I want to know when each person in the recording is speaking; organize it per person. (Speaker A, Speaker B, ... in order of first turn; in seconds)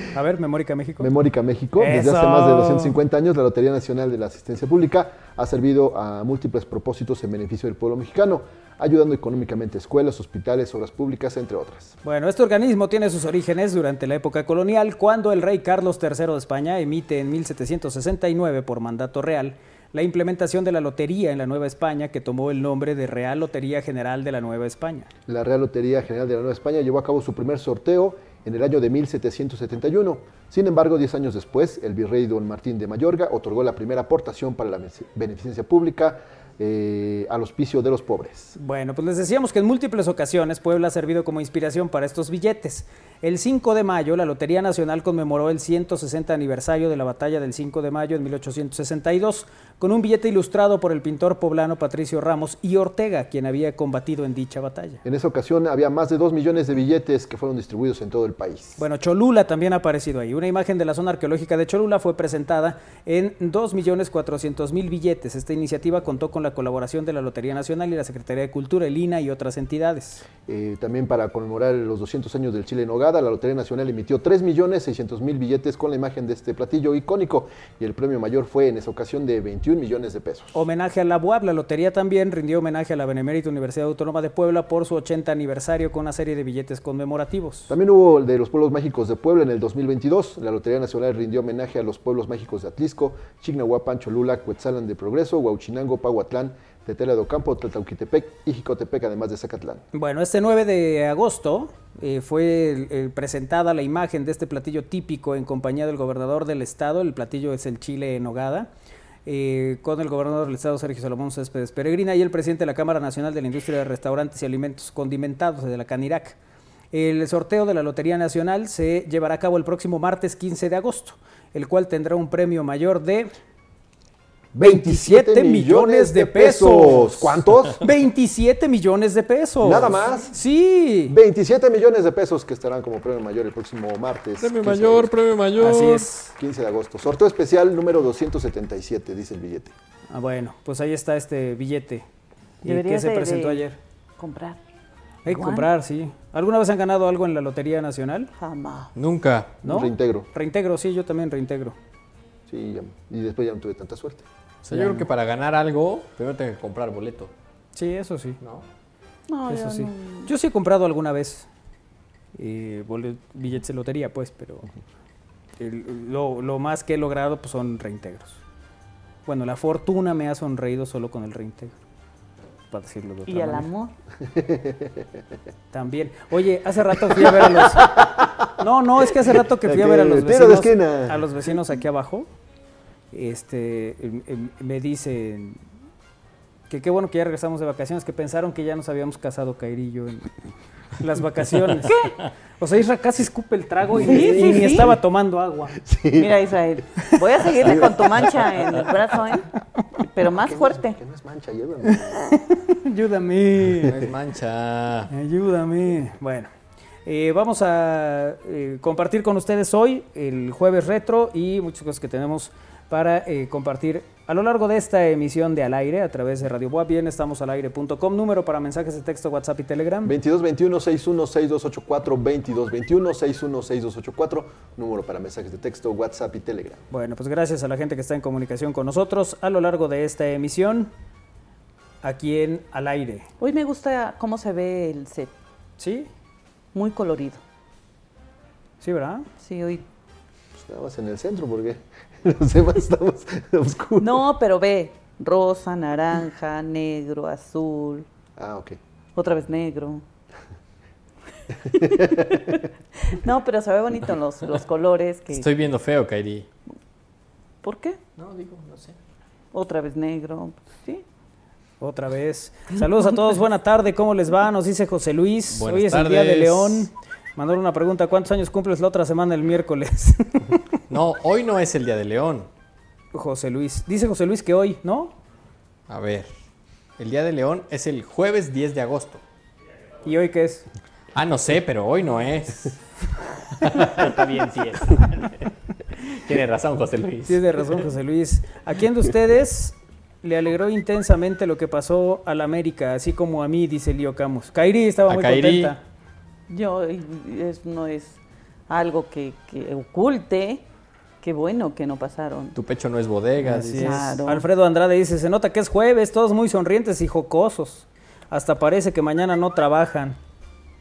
Speaker A: 0.1-1.1, 1.8-3.0, 12.0-25.1, 38.6-55.0, 58.8-70.2, 80.5-87.7, 99.9-108.7, 109.3-116.4, 116.9-123.3, 124.6-131.2, 135.6-136.3, 140.1-142.1, 142.6-143.8, 145.2-148.3, 149.6-151.8, 154.7-155.1, 157.8-158.4, 159.5-161.5, 162.4-164.7, 165.6-168.4, 169.3-171.8, 172.7-173.7, 175.7-177.9, 178.6-182.3, 183.1-185.6, 186.7-190.4, 191.0-192.1, 192.6-195.8, 201.9-204.0, 205.1-206.5, 207.1-220.1, 226.9-230.9, 232.0-233.3, 235.8-236.1, 238.8-239.3, 261.8-270.6, 273.1-275.1, 280.0-280.7, 287.3-295.8, 303.4-310.2
Speaker B: 1.0-12.0, 25.3-38.5, 55.0-58.8, 70.5-80.6, 87.7-99.8, 124.5-127.8, 129.6-130.3, 131.1-135.1, 136.4-139.7, 149.6-150.3, 152.5-154.2, 174.2-175.1, 177.1-178.5, 179.6-181.3, 195.8-196.4, 197.6-198.6, 200.3-202.2, 220.0-226.8, 240.5-244.3, 248.4-248.8, 251.8-252.3
Speaker C: 134.4-136.1, 148.9-149.5, 154.6-157.3, 203.8-205.1, 255.3-256.5, 258.2-259.0, 265.5-266.9, 270.9-272.5, 275.9-276.3, 277.0-279.2, 281.1-282.8, 283.6-287.7, 295.1-295.8, 302.5-304.1
Speaker D: 142.6-143.6, 144.2-144.6, 145.3-145.7, 148.4-148.9, 159.3-160.3, 173.3-173.9, 194.0-194.9, 196.2-199.5, 200.1-200.9, 233.4-235.3, 236.7-237.4, 239.4-239.8, 244.0-248.1, 249.2-250.0, 251.7-255.5, 257.6-258.0, 259.5-261.0, 296.5-298.2, 298.7-300.6, 301.2-302.6, 303.8-304.5